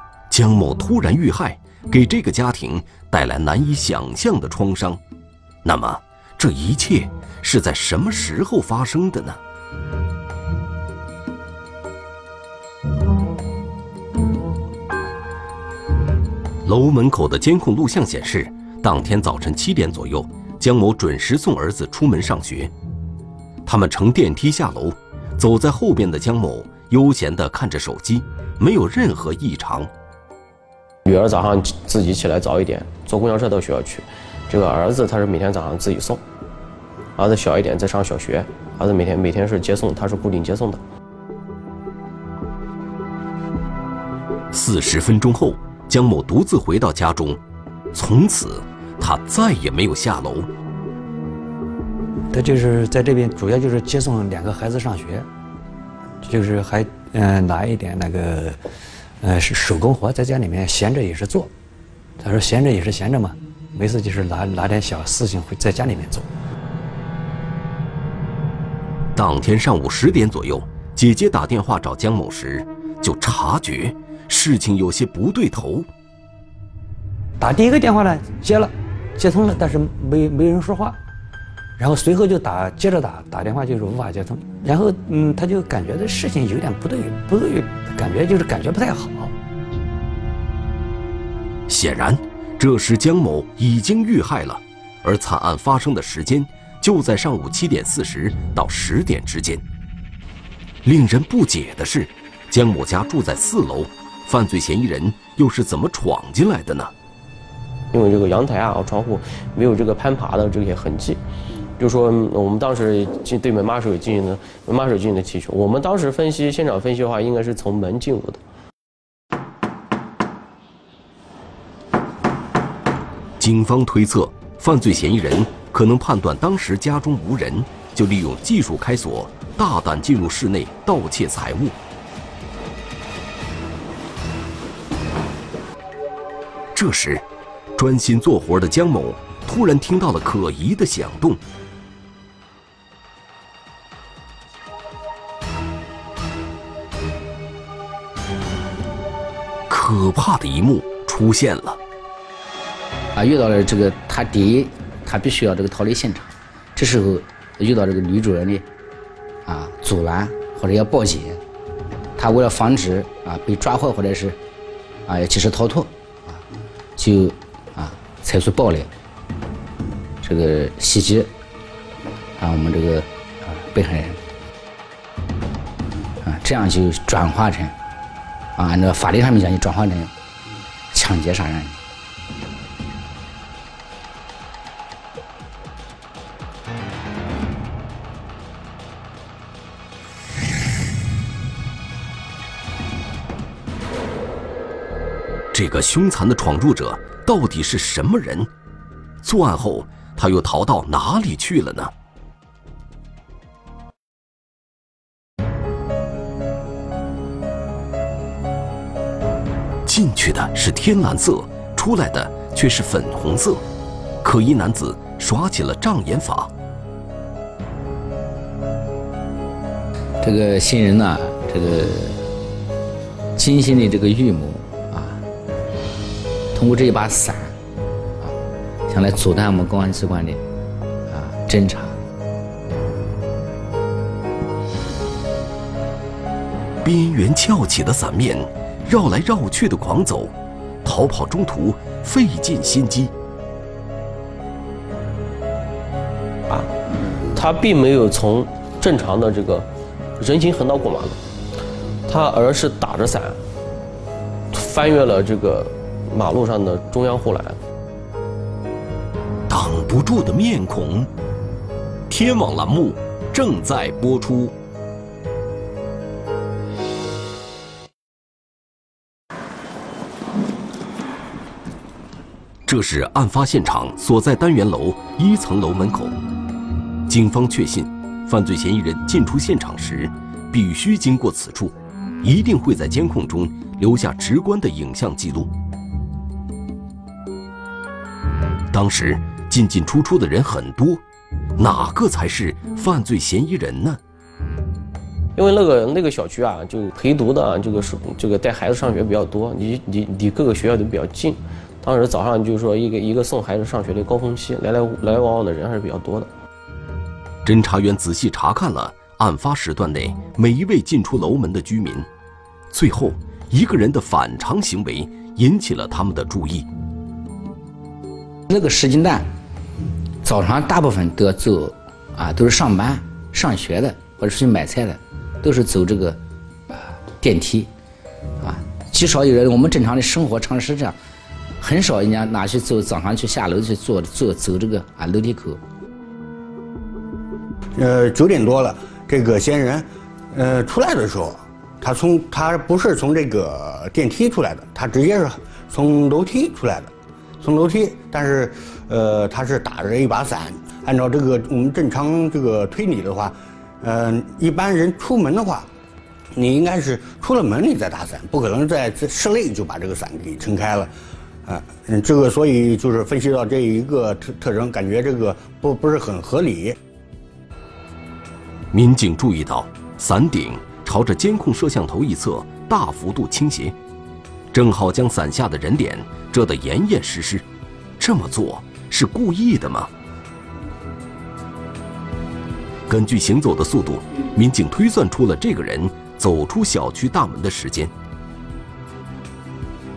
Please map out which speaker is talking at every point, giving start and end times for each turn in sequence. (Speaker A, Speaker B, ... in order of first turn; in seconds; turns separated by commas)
Speaker A: 0.3-5.0, Speaker A: 5.6-9.4, Speaker A: 16.6-22.7, Speaker A: 23.6-29.9, Speaker B: 31.1-36.2, Speaker B: 37.2-40.8, Speaker A: 44.5-47.4, Speaker A: 47.9-50.5, Speaker C: 52.3-55.3, Speaker C: 56.2-58.6, Speaker C: 59.2-61.5, Speaker C: 62.2-66.3, Speaker A: 69.2-75.9, Speaker C: 77.4-81.0, Speaker C: 81.8-89.3, Speaker A: 91.7-99.6, Speaker A: 100.8-106.9, Speaker B: 107.9-111.2, Speaker B: 111.8-118.4, Speaker A: 123.4-131.8, Speaker A: 136.7-137.2, Speaker A: 137.8-141.4, Speaker A: 149.7-151.8, Speaker D: 153.1-158.7, Speaker D: 159.4-161.4, Speaker D: 162.2-164.4, Speaker D: 165.1-166.4, Speaker D: 167.0-168.9, Speaker D: 170.2-171.3, Speaker D: 172.4-174.2, Speaker D: 176.2-177.7, Speaker D: 178.6-180.1, Speaker D: 180.9-181.8, Speaker A: 195.5-198.5, Speaker A: 199.2-201.9, Speaker A: 209.9-213.6, Speaker A: 214.2-216.5, Speaker D: 220.2-222.3, Speaker D: 223.4-225.2, Speaker D: 226.5-227.6, Speaker D: 228.9-230.4, Speaker D: 231.1-231.9, Speaker A: 236.8-243.1, Speaker B: 247.2-249.7, Speaker B: 250.2-251.2, Speaker B: 252.1-253.4, Speaker B: 254.5-257.6, Speaker A: 259.5-261.1, Speaker A: 262.1-264.6, Speaker A: 272.7-276.1, Speaker A: 277.1-285.5, Speaker A: 288.7-291.0, Speaker A: 291.6-294.0, Speaker B: 295.4-306.3, Speaker A: 307.4-312.1, Speaker A: 312.7-316.7, Speaker D: 318.5-319.3, Speaker D: 320.2-326.2, Speaker D: 326.7-327.7, Speaker D: 328.4-331.0, Speaker D: 331.6-335.6, Speaker E: 337.8-355.7, Speaker E: 356.3-360.9, Speaker E: 361.4-366.8, Speaker A: 368.7-373.8, Speaker A: 374.5-377.4, Speaker A: 378.0-379.9, Speaker A: 382.9-387.9